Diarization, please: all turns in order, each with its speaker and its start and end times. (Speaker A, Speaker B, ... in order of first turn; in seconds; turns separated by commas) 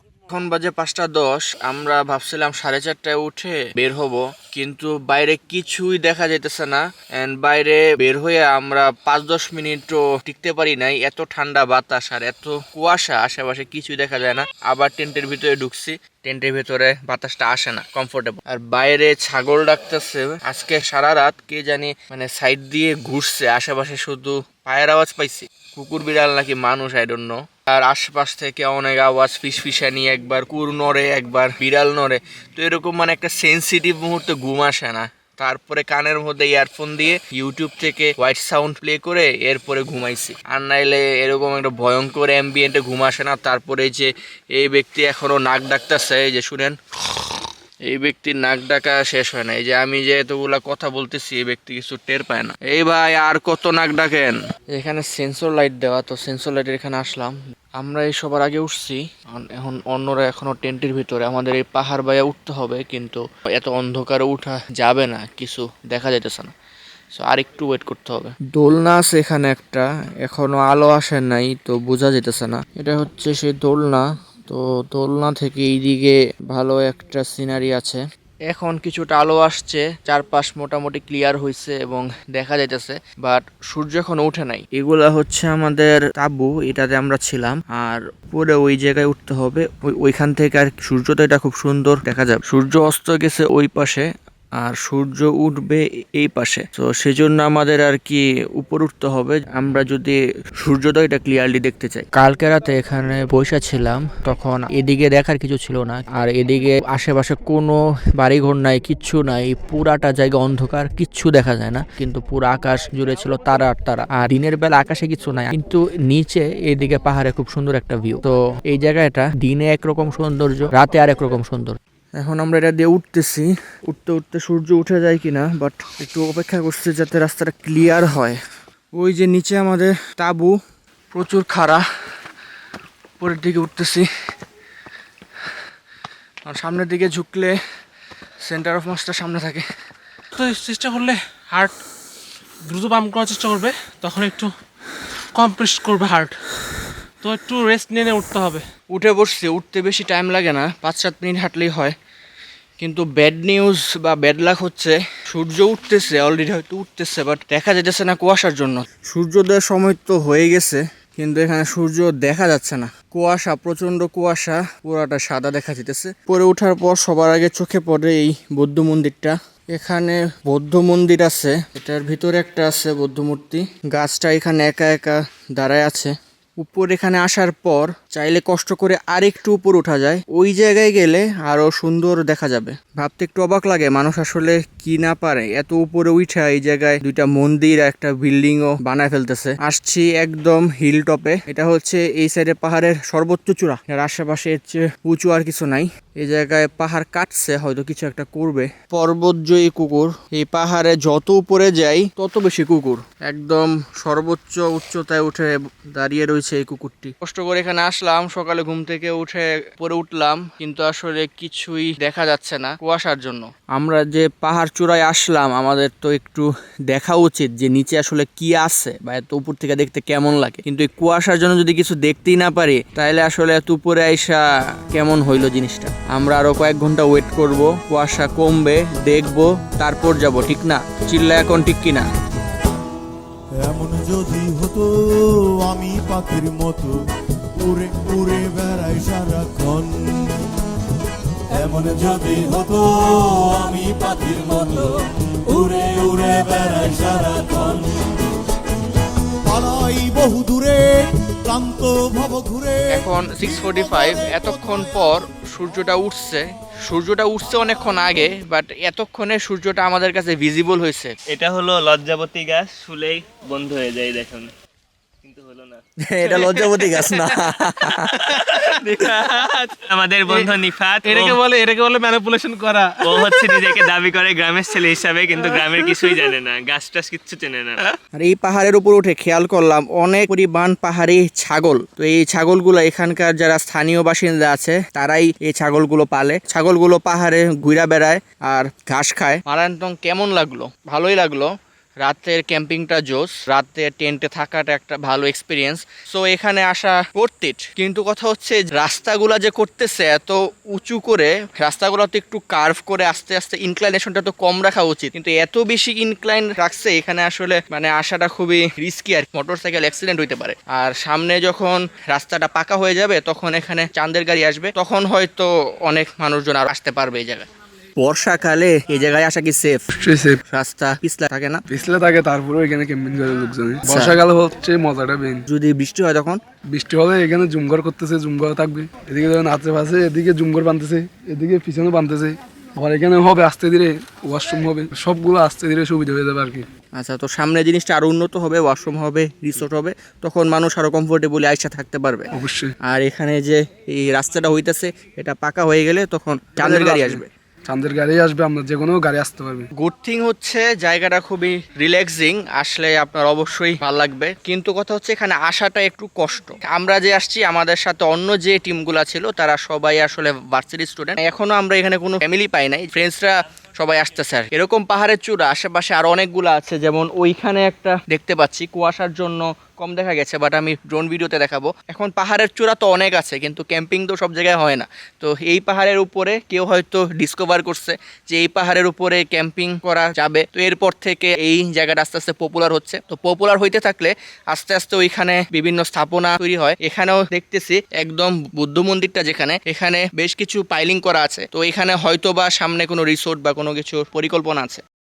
Speaker A: 0.3-46.8, Speaker A: 47.9-66.5, Speaker A: 67.2-94.0, Speaker A: 94.6-128.4, Speaker A: 128.9-130.6, Speaker A: 131.1-131.8, Speaker A: 133.2-134.1, Speaker A: 136.4-137.6, Speaker A: 138.4-139.7, Speaker B: 140.4-141.8, Speaker B: 142.7-144.5, Speaker B: 145.3-146.4, Speaker B: 147.2-148.7, Speaker A: 148.9-151.9, Speaker A: 152.8-224.4, Speaker A: 224.9-232.1, Speaker C: 233.6-234.9, Speaker C: 235.6-236.9, Speaker C: 237.6-240.3, Speaker C: 241.6-244.9, Speaker C: 245.5-248.1, Speaker C: 249.4-254.7, Speaker A: 252.9-261.1, Speaker D: 261.3-264.5, Speaker D: 265.2-271.4, Speaker A: 266.0-268.8, Speaker B: 271.1-273.6, Speaker D: 273.0-277.8, Speaker A: 278.2-291.5, Speaker A: 292.0-317.4, Speaker A: 318.0-319.8, Speaker E: 320.0-320.4, Speaker A: 320.5-321.6, Speaker E: 321.7-325.4, Speaker A: 323.8-324.2, Speaker A: 325.5-326.4, Speaker E: 326.7-336.7, Speaker A: 336.9-342.3, Speaker E: 342.3-342.7, Speaker A: 342.8-347.3, Speaker E: 346.6-349.7, Speaker A: 349.8-394.8